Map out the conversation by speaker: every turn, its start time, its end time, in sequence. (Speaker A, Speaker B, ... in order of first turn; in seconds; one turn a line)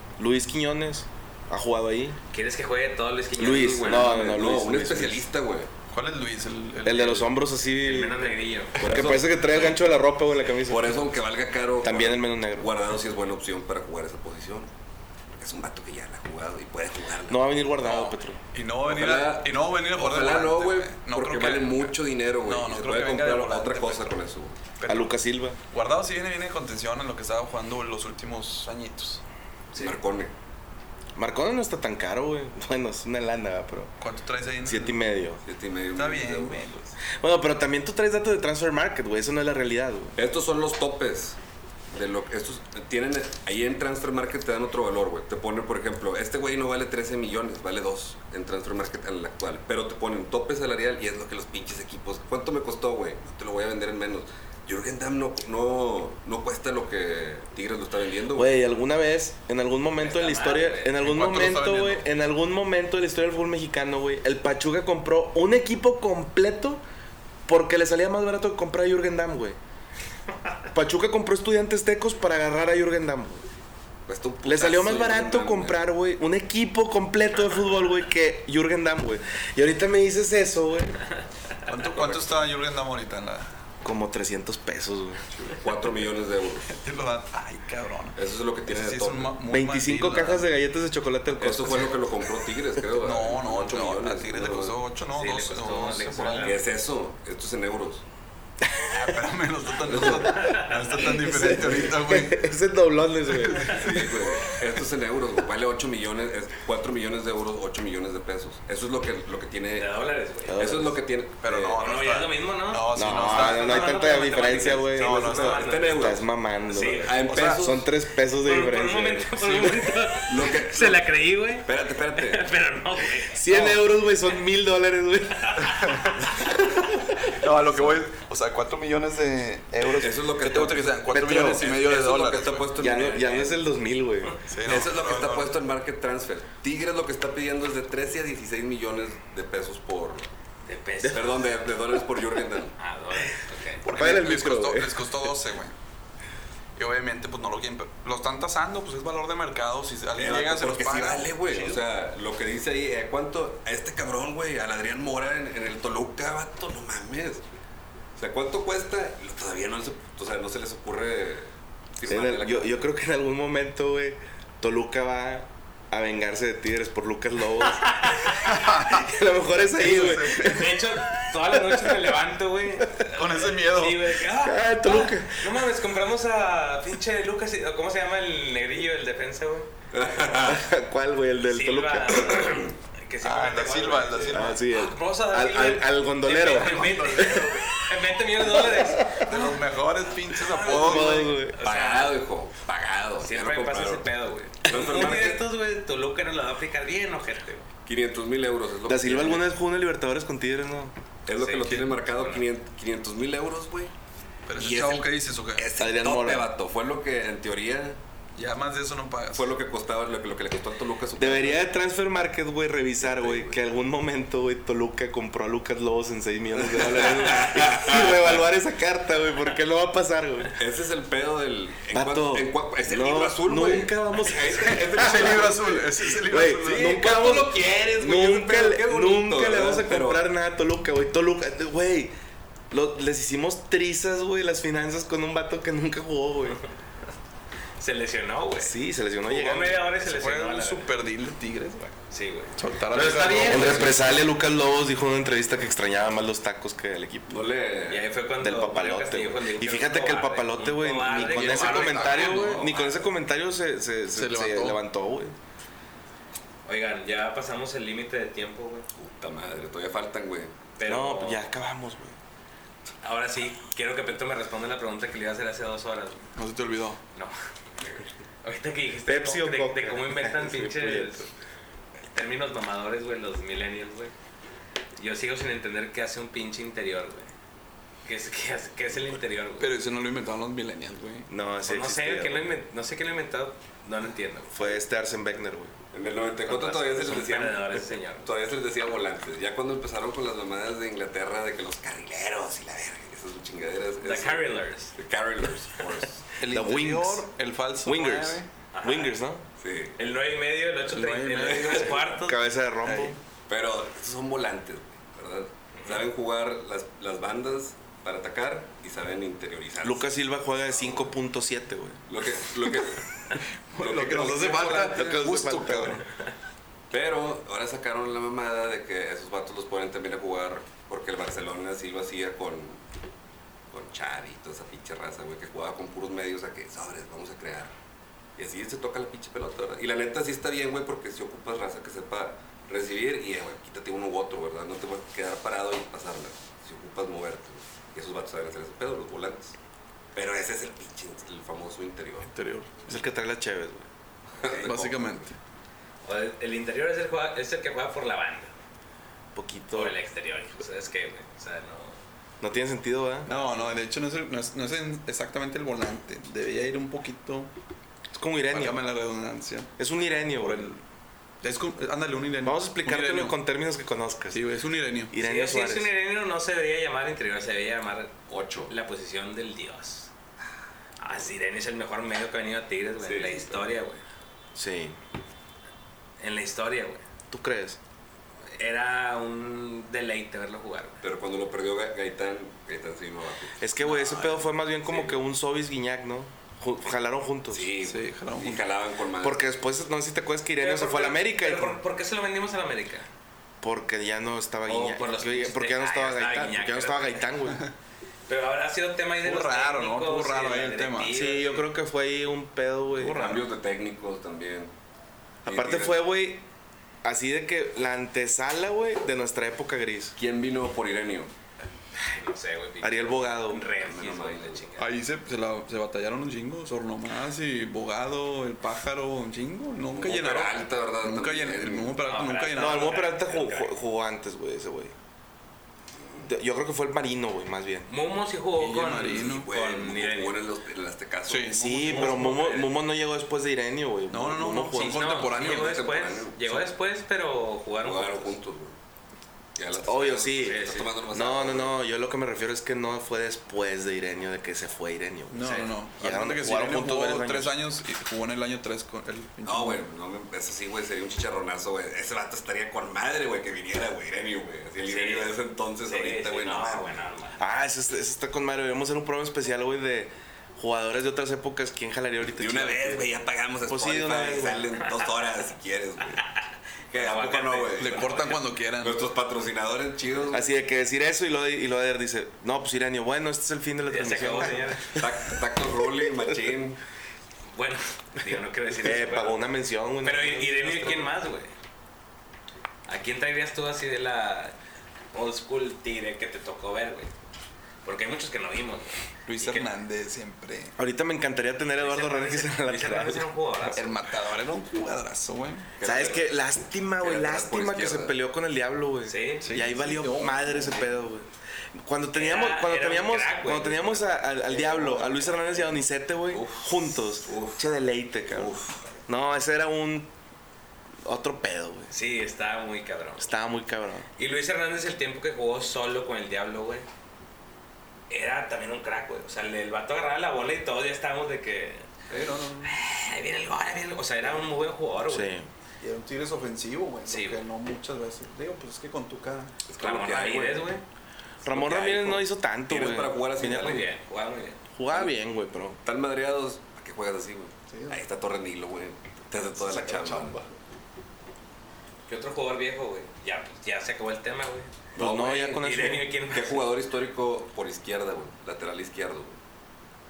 Speaker A: 0.2-2.2
Speaker B: 2.3-4.1
Speaker A: 3.4-5.2
Speaker C: 3.5-5.7
Speaker D: 5.9-7.3
Speaker A: 6.8-8.2
Speaker B: 7.8-8.8
Speaker C: 8.8-9.8
Speaker A: 8.8-11.0
Speaker C: 10.7-14.7
Speaker A: 11.8-12.7
Speaker C: 15.3-17.4
Speaker A: 17.3-18.4
Speaker D: 17.9-24.2
Speaker C: 18.9-24.6
Speaker D: 24.8-25.1
Speaker A: 24.9-25.6
Speaker D: 25.7-29.2
Speaker C: 29.7-30.3
Speaker A: 31.1-33.9
Speaker D: 34.0-35.0
Speaker A: 34.6-35.4
Speaker C: 35.4-36.9
Speaker D: 36.0-36.8
Speaker A: 37.1-40.1
Speaker C: 40.1-41.4
Speaker C: 41.9-58.6
Speaker A: 58.3-66.8
Speaker B: 60.0-61.0
Speaker D: 61.0-62.0
Speaker A: 67.5-69.6
Speaker A: 70.7-73.4
Speaker C: 74.1-75.8
Speaker A: 74.4-81.0
Speaker D: 81.7-83.5
Speaker A: 83.8-85.2
Speaker C: 85.3-86.7
Speaker D: 86.7-88.2
Speaker C: 88.2-89.3
Speaker D: 88.7-90.5
Speaker A: 89.5-91.9
Speaker C: 91.3-94.8
Speaker D: 92.9-96.6
Speaker B: 95.1-96.6
Speaker C: 96.4-98.0
Speaker D: 98.9-102.5
Speaker C: 99.8-100.4
Speaker B: 100.3-101.0
Speaker A: 101.0-104.0
Speaker D: 103.3-104.1
Speaker C: 103.7-109.9
Speaker B: 109.8-110.6
Speaker A: 110.5-111.0
Speaker C: 110.6-111.8
Speaker D: 111.4-115.8
Speaker B: 111.8-116.1
Speaker A: 112.9-119.8
Speaker C: 115.4-117.9
Speaker B: 116.7-117.2
Speaker D: 117.2-117.7
Speaker B: 118.4-123.4
Speaker C: 120.2-121.1
Speaker C: 121.6-122.4
Speaker A: 123.3-126.9
Speaker D: 123.5-123.8
Speaker D: 125.6-126.3
Speaker D: 127.3-132.7
Speaker C: 129.8-133.6
Speaker A: 131.1-131.6
Speaker A: 132.7-134.4
Speaker D: 134.5-135.5
Speaker C: 134.6-140.3
Speaker B: 140.6-141.4
Speaker C: 141.1-142.7
Speaker B: 142.8-143.8
Speaker D: 143.8-145.7
Speaker A: 143.8-145.3
Speaker D: 146.8-151.8
Speaker C: 150.2-157.4
Speaker C: 158.2-162.8
Speaker A: 162.1-172.2
Speaker B: 167.9-168.4
Speaker D: 168.4-169.1
Speaker D: 169.7-170.6
Speaker B: 170.3-179.7
Speaker D: 173.1-174.1
Speaker A: 174.4-175.6
Speaker C: 179.9-180.6
Speaker A: 180.4-182.6
Speaker B: 181.5-189.5
Speaker D: 183.2-184.6
Speaker A: 184.3-187.5
Speaker D: 186.3-187.7
Speaker A: 188.5-189.5
Speaker D: 189.2-191.4
Speaker B: 190.4-192.2
Speaker A: 190.6-191.6
Speaker C: 191.6-194.1
Speaker B: 193.2-197.7
Speaker C: 194.6-195.4
Speaker A: 194.7-195.2
Speaker C: 197.8-199.5
Speaker A: 198.9-200.9
Speaker C: 201.2-203.9
Speaker B: 201.4-202.4
Speaker D: 204.5-205.7
Speaker C: 204.6-208.0
Speaker A: 205.8-206.5
Speaker D: 208.3-209.5
Speaker C: 209.3-211.7
Speaker A: 211.2-220.5
Speaker C: 213.0-213.6
Speaker C: 216.6-218.4
Speaker C: 220.5-230.2
Speaker A: 221.9-225.7
Speaker D: 224.6-227.0
Speaker A: 226.2-232.1
Speaker A: 232.7-236.6
Speaker B: 237.8-238.8
Speaker A: 238.6-239.8
Speaker B: 239.3-240.9
Speaker D: 239.3-241.9
Speaker B: 241.9-244.0
Speaker D: 242.6-244.2
Speaker A: 243.4-247.4
Speaker C: 247.3-248.1
Speaker B: 247.9-253.0
Speaker A: 248.4-255.3
Speaker D: 251.2-252.8
Speaker D: 254.1-254.8
Speaker B: 256.6-258.9
Speaker C: 259.0-260.6
Speaker B: 260.8-261.4
Speaker A: 260.9-262.1
Speaker B: 263.0-266.2
Speaker D: 266.4-267.0
Speaker B: 268.4-271.2
Speaker A: 269.1-271.3
Speaker B: 272.1-274.1
Speaker B: 274.9-277.3
Speaker B: 278.0-279.7
Speaker D: 279.6-281.3
Speaker A: 281.3-282.6
Speaker B: 281.7-284.6
Speaker A: 284.5-285.7
Speaker C: 285.9-296.3
Speaker B: 286.4-288.3
Speaker B: 294.0-294.9
Speaker D: 296.4-298.5
Speaker A: 296.5-297.2
Speaker A: 297.8-299.4
Speaker B: 298.7-299.1
Speaker C: 299.6-299.9
Speaker B: 300.0-302.4
Speaker D: 300.9-302.1
Speaker C: 301.4-301.9
Speaker A: 302.2-303.2
Speaker D: 302.8-303.2
Speaker C: 303.5-310.1
Speaker A: 309.8-312.0
Speaker C: 310.7-311.1
Speaker C: 312.1-313.0
Speaker D: 313.7-316.0
Speaker C: 313.8-315.9
Speaker A: 314.5-316.0
Speaker C: 316.9-322.8
Speaker C: 323.7-327.7
Speaker C: 328.4-339.6
Speaker C: 340.1-342.3
Speaker D: 342.2-343.0
Speaker A: 342.9-343.9
Speaker C: 344.4-345.3
Speaker D: 344.5-345.4
Speaker B: 346.0-348.5
Speaker A: 349.3-349.9
Speaker B: 349.7-352.0
Speaker A: 352.4-353.3
Speaker D: 353.2-357.5
Speaker A: 358.1-358.8
Speaker D: 358.5-359.7
Speaker A: 359.8-360.8
Speaker D: 360.3-360.8
Speaker D: 361.4-363.4
Speaker A: 362.4-364.4
Speaker D: 364.3-365.1
Speaker A: 365.1-365.9
Speaker B: 365.2-368.1
Speaker C: 368.3-368.7
Speaker B: 368.7-370.1
Speaker B: 371.0-374.0
Speaker C: 373.0-373.8
Speaker A: 374.5-375.0
Speaker B: 376.2-377.0
Speaker A: 377.3-377.8
Speaker B: 378.5-381.0
Speaker C: 381.0-385.2
Speaker A: 383.6-387.7
Speaker B: 383.8-384.4
Speaker C: 387.5-389.4
Speaker D: 387.8-388.6
Speaker A: 389.2-391.8
Speaker B: 390.6-393.1
Speaker A: 393.6-397.6
Speaker B: 394.7-397.3
Speaker B: 398.3-401.7
Speaker D: 399.2-401.1
Speaker A: 401.1-403.4
Speaker D: 403.0-403.4
Speaker C: 403.0-404.7
Speaker C: 405.4-406.0
Speaker A: 405.4-406.4
Speaker A: 407.0-410.1
Speaker C: 410.1-411.3
Speaker B: 411.9-414.9
Speaker A: 412.8-413.7
Speaker C: 413.8-414.6
Speaker D: 414.8-423.0
Speaker C: 419.9-422.0
Speaker B: 422.0-423.8
Speaker A: 422.5-424.9
Speaker A: 426.2-427.9
Speaker B: 427.9-430.4
Speaker D: 428.6-429.5
Speaker C: 429.0-431.6
Speaker D: 431.3-432.4
Speaker A: 431.5-435.2
Speaker B: 431.9-432.7
Speaker D: 434.1-435.8
Speaker B: 434.7-438.3
Speaker C: 435.2-436.4
Speaker C: 437.8-438.8
Speaker C: 439.6-441.7
Speaker A: 439.7-447.6
Speaker B: 440.4-440.9
Speaker D: 445.3-449.8
Speaker C: 449.4-457.0
Speaker B: 454.8-457.4
Speaker A: 457.4-463.1
Speaker C: 462.4-466.2
Speaker A: 463.7-464.7
Speaker C: 466.9-470.5
Speaker B: 466.9-468.3
Speaker D: 467.8-469.0
Speaker A: 470.3-475.1
Speaker B: 473.9-475.0
Speaker C: 474.9-476.8
Speaker B: 477.5-479.4
Speaker A: 478.8-481.1
Speaker B: 480.0-481.5
Speaker B: 482.9-484.5
Speaker B: 485.1-487.1
Speaker B: 487.8-489.7
Speaker D: 489.3-490.8
Speaker A: 490.8-493.3
Speaker B: 491.8-493.9
Speaker D: 493.6-495.7
Speaker C: 495.8-496.3
Speaker A: 495.8-508.6
Speaker C: 497.0-498.1
Speaker B: 499.1-499.5
Speaker D: 499.4-500.9
Speaker B: 502.1-504.1
Speaker D: 504.5-505.8
Speaker C: 506.3-507.6
Speaker C: 508.3-508.8
Speaker A: 509.1-510.1
Speaker A: 511.0-511.9
Speaker B: 511.9-513.3
Speaker A: 513.2-514.1
Speaker B: 514.2-516.8
Speaker B: 518.1-521.9
Speaker D: 522.1-522.8
Speaker B: 522.6-525.3
Speaker A: 525.1-525.5
Speaker D: 525.8-529.5
Speaker B: 527.1-527.4
Speaker C: 529.6-530.7
Speaker B: 529.8-530.8
Speaker A: 531.4-533.9
Speaker C: 531.5-533.9
Speaker B: 533.5-534.6
Speaker A: 534.8-535.8
Speaker C: 535.8-540.5
Speaker D: 537.7-538.0
Speaker D: 539.6-540.4
Speaker B: 542.1-546.7
Speaker A: 544.9-546.1
Speaker C: 545.0-545.6
Speaker C: 546.3-549.4